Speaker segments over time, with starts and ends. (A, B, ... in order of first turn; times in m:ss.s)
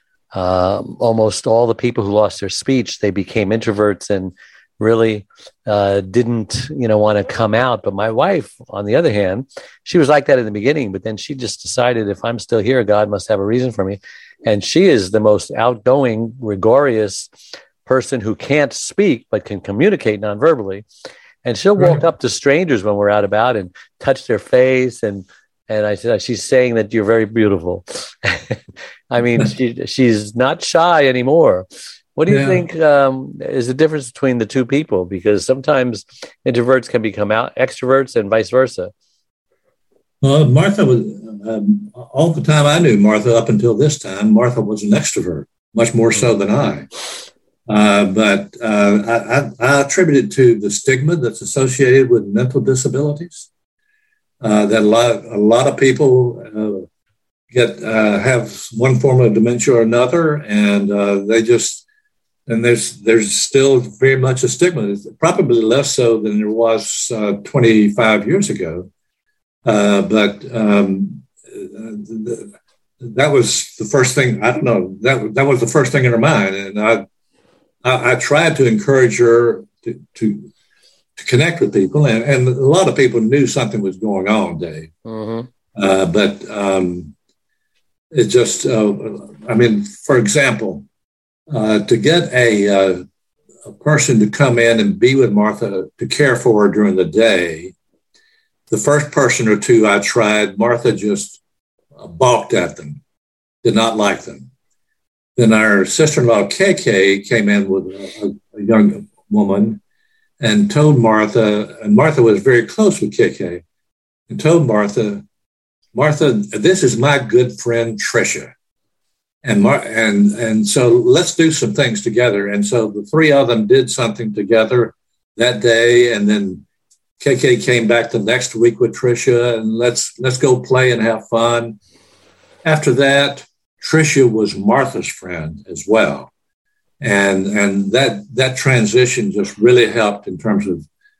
0:00.3-0:17.3 A
0:17.8-0:20.8 A
0:21.4-0:28.6 A
0:21.8-0:22.0 B
0:29.1-0:31.6 A
0:32.2-0:38.9 A
0:32.3-0:32.6 B
0:40.2-0:47.1 B
0:47.7-0:53.5 B
0:54.4-0:56.8 B
0:57.5-1:01.8 B
1:02.5-1:08.9 B
1:09.6-1:17.0 B
1:17.8-1:20.5 B
1:21.2-1:24.9 B
1:25.0-1:25.5 A
1:25.7-1:27.1 B
1:28.1-1:30.8 B
1:31.5-1:33.0 B
1:33.6-1:37.7 B
1:38.7-1:41.4 B
1:42.0-1:43.0 B
1:43.6-1:44.5 B
1:45.4-1:49.8 B
1:50.4-1:53.6 B
1:54.3-1:55.2 B
1:55.9-1:58.5 B
1:59.4-2:06.6 B
2:07.2-2:11.8 B
2:12.6-2:16.3 B
2:17.0-2:20.8 B